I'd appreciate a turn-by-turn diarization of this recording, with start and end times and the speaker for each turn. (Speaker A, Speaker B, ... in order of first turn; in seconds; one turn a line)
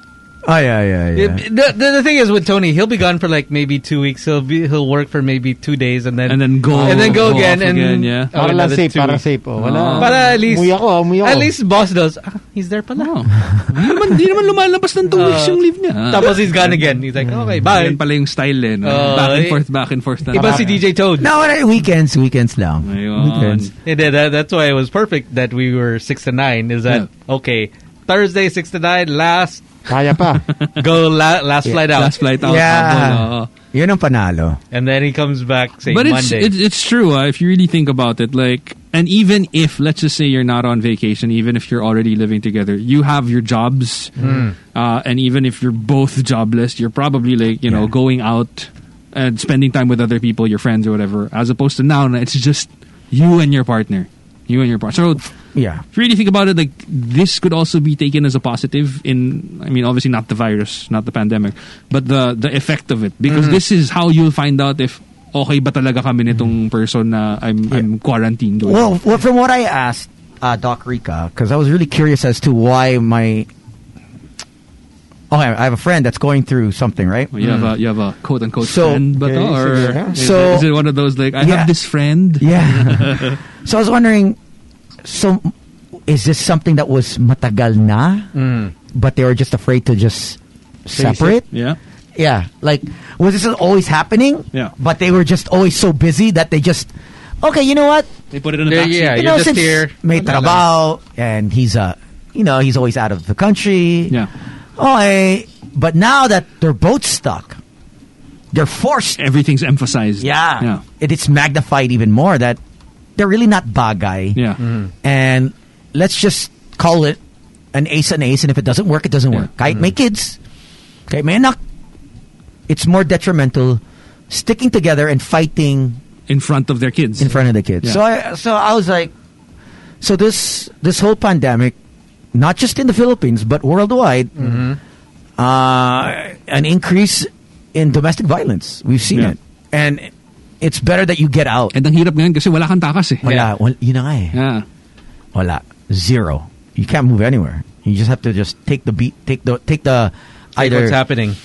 Speaker A: 0.5-1.4
Speaker B: 1.1-9.2
Speaker C: 6.3-8.3
Speaker D: 6.8-7.1
Speaker D: 8.3-11.5
Speaker C: 9.6-10.3
Speaker B: 10.0-13.1
Speaker C: 13.0-16.9
Speaker B: 15.1-18.0
Speaker C: 17.6-20.8
Speaker B: 18.8-19.6
Speaker B: 20.3-21.3
Speaker D: 20.4-20.6
Speaker A: 21.2-23.7
Speaker C: 22.9-23.7
Speaker B: 23.9-29.7
Speaker D: 29.9-30.4
Speaker C: 30.5-30.8
Speaker B: 30.8-32.2
Speaker C: 31.9-33.5
Speaker A: 32.4-34.6
Speaker B: 34.7-36.5
Speaker C: 35.9-44.1
Speaker B: 44.2-44.5
Speaker C: 44.7-55.3
Speaker A: 55.5-55.8
Speaker C: 55.9-69.0
Speaker B: 63.3-63.6
Speaker A: 68.6-73.5
Speaker A: 75.3-77.3
Speaker C: 77.3-83.4
Speaker B: 77.4-77.7
Speaker A: 78.6-79.1
Speaker D: 79.2-80.2
Speaker A: 80.1-80.7
Speaker A: 81.4-81.7
Speaker A: 82.4-84.4
Speaker A: 85.0-85.5
Speaker A: 86.1-88.3
Speaker B: 88.3-88.7
Speaker A: 88.9-91.5
Speaker D: 91.0-91.3
Speaker C: 91.5-91.8
Speaker A: 92.2-96.9
Speaker A: 97.4-98.1
Speaker C: 98.3-99.5
Speaker B: 98.7-100.6
Speaker A: 99.1-104.2
Speaker A: 104.8-107.6
Speaker A: 108.5-109.2
Speaker C: 109.2-110.8
Speaker A: 110.2-112.6
Speaker A: 113.2-114.4
Speaker B: 114.6-114.9
Speaker A: 115.0-117.2
Speaker A: 117.7-120.4
Speaker A: 121.1-121.6
Speaker A: 122.7-126.0
Speaker C: 126.3-128.0
Speaker A: 127.2-129.1
Speaker A: 130.0-131.8
Speaker A: 132.3-134.5
Speaker B: 134.4-134.8
Speaker A: 135.4-141.7
Speaker C: 141.7-143.3
Speaker A: 143.2-144.4
Speaker B: 143.2-143.5
Speaker C: 144.3-144.7
Speaker A: 145.3-151.0
Speaker B: 150.6-151.4